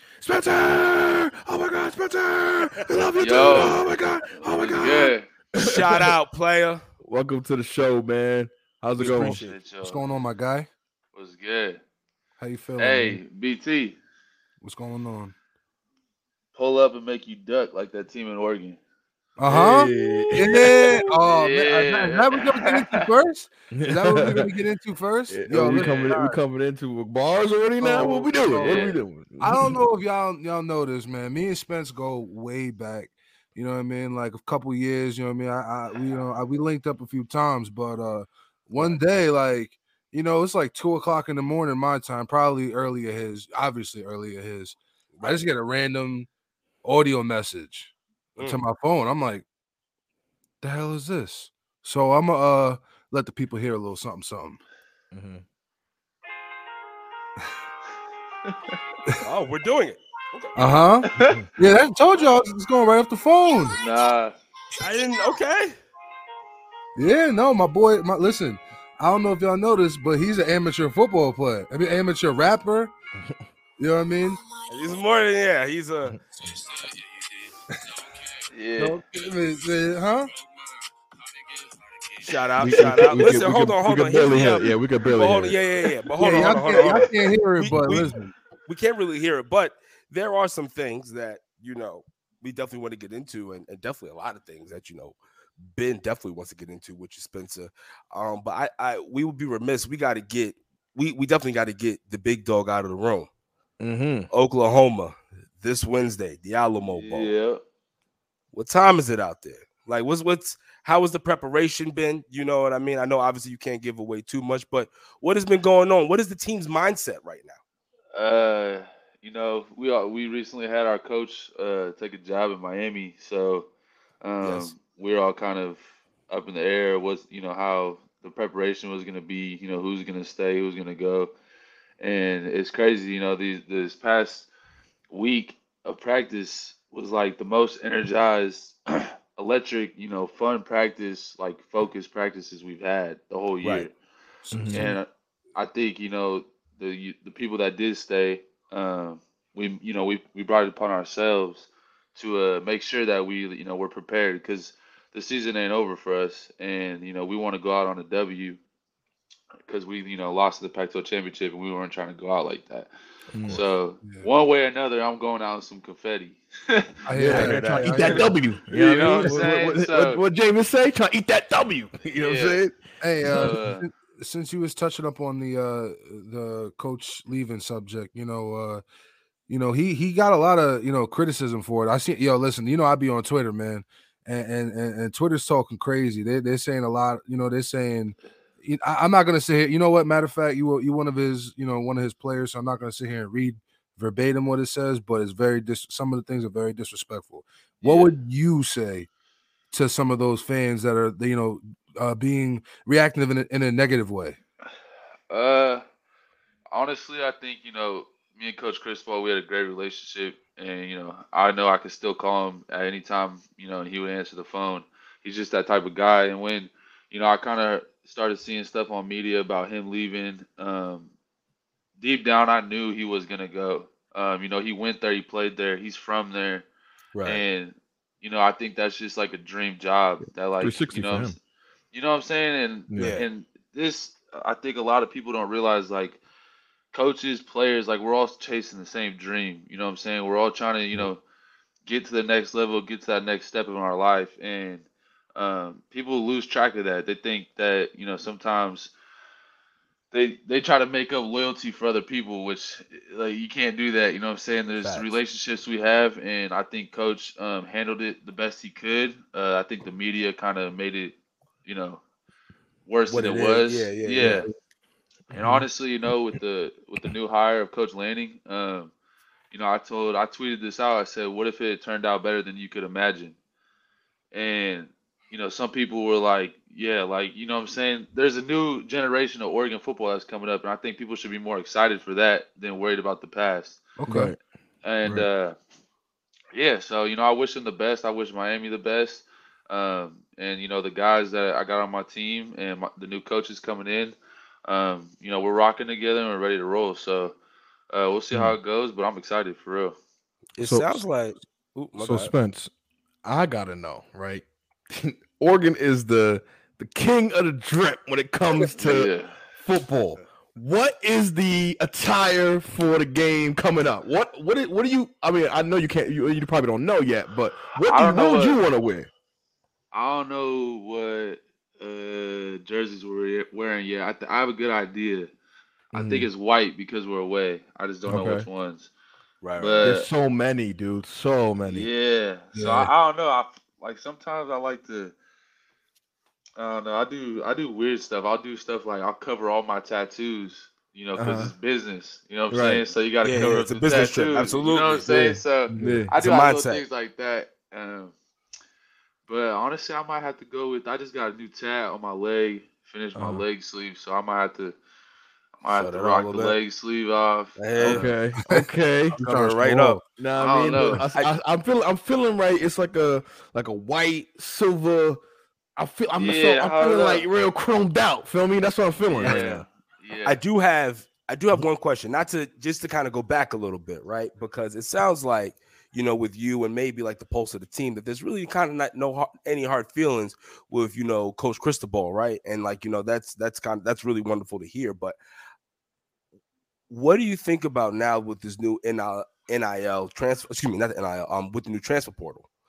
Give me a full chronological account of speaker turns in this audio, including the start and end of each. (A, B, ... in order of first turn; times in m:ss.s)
0:00.2-0:06.1 A
0:03.2-0:03.9 B
0:04.4-0:05.2 B
0:05.6-0:06.8 C
0:07.0-0:09.4 A
0:09.0-0:09.6 C
0:09.1-0:10.0 B
0:09.8-0:10.7 D
0:11.1-0:11.8 B
0:12.4-0:13.2 D
0:12.8-0:14.0 B
0:14.6-0:15.3 D
0:16.5-0:18.8 B
0:19.4-0:26.4 D
0:19.5-0:20.7 A
0:20.3-0:23.1 B
0:23.7-0:24.5 A
0:25.3-0:29.8 A
0:25.6-0:26.2 B
0:27.8-0:46.3 D
0:28.0-0:29.0 B
0:45.1-0:45.4 C
0:46.8-0:49.4 D
0:48.4-0:48.6 C
0:50.6-0:54.6 D
0:55.1-0:55.4 A
0:58.4-0:58.7 B
0:59.2-1:00.7 C
1:00.5-1:03.8 D
1:01.1-1:01.4 B
1:01.1-1:01.5 A
1:03.8-1:04.3 B
1:04.8-1:05.8 C
1:07.0-1:12.9 D
1:13.8-1:14.4 D
1:14.7-1:16.2 C
1:18.5-1:19.0 B
1:18.8-1:20.3 D
1:22.2-1:28.1 C
1:22.6-1:25.6 A
1:26.2-1:28.3 D
1:28.6-1:43.3 C
1:43.8-1:44.3 A
1:44.3-1:47.3 C
1:46.9-1:47.6 B
1:48.5-1:57.6 C
1:58.1-2:03.7 B
2:04.2-2:11.3 B
2:04.4-2:04.7 C
2:12.0-2:14.5 B
2:15.1-2:23.9 B
2:23.6-2:23.9 C
2:24.4-2:25.0 D
2:24.5-2:24.9 A
2:24.7-2:38.6 B
2:39.6-2:42.9 B
2:43.3-2:43.6 A
2:43.4-2:47.0 B
2:47.0-2:48.6 D
2:47.2-2:52.8 A
2:47.3-2:48.3 C
2:48.7-2:50.2 B
2:49.2-2:49.5 D
2:52.2-2:52.6 B
2:53.0-2:58.8 D
2:53.2-2:53.8 B
2:53.3-2:53.5 A
2:59.5-3:19.1 D
3:17.8-3:18.1 B
3:19.7-3:24.4 D
3:25.3-3:25.8 B
3:26.7-3:41.1 B
3:42.0-3:46.6 B
3:47.1-3:47.4 C
3:47.2-3:51.4 B
3:50.6-3:51.4 A
3:51.9-3:56.2 B
3:52.9-3:53.2 A
3:53.0-3:53.2 C
3:56.9-4:01.2 B
4:01.8-4:08.9 B
4:10.1-4:22.0 B
4:14.8-4:15.1 C
4:22.9-4:24.5 B
4:23.1-4:24.5 C
4:25.3-4:25.6 A
4:25.3-4:28.9 B
4:29.5-4:33.4 B
4:34.3-4:43.8 B
4:44.0-4:44.3 D
4:44.0-4:44.4 A
4:44.8-4:45.5 B
4:46.5-4:54.1 B
4:54.6-4:57.3 B
4:57.9-4:59.9 B
5:00.6-5:02.3 C
5:00.6-5:01.0 A
5:02.0-5:02.7 A
5:03.2-5:19.1 A
5:08.7-5:09.3 B
5:17.7-5:18.6 B
5:19.9-5:25.3 B
5:25.9-5:26.3 A
5:25.9-5:28.9 B
5:28.1-5:28.5 A
5:29.4-5:29.9 C
5:29.6-5:30.1 B
5:29.8-5:31.9 A
5:31.6-5:35.1 B
5:32.5-5:32.9 D
5:36.6-5:48.1 B
5:41.1-5:41.5 A
5:42.5-5:44.5 A
5:43.2-5:45.0 C
5:45.0-5:46.1 A
5:46.1-5:46.8 C
5:49.3-5:54.8 B
5:53.1-5:53.4 A
5:55.6-5:58.1 B
5:55.6-5:56.6 C
5:57.6-5:58.1 C
5:57.8-5:59.2 A
5:58.4-6:00.0 D
5:59.2-6:00.0 C
6:00.2-6:05.2 A
6:00.4-6:01.0 B
6:05.8-6:09.6 A
6:06.2-6:07.2 B
6:09.2-6:10.4 B
6:10.2-6:25.2 C
6:26.9-6:32.5 C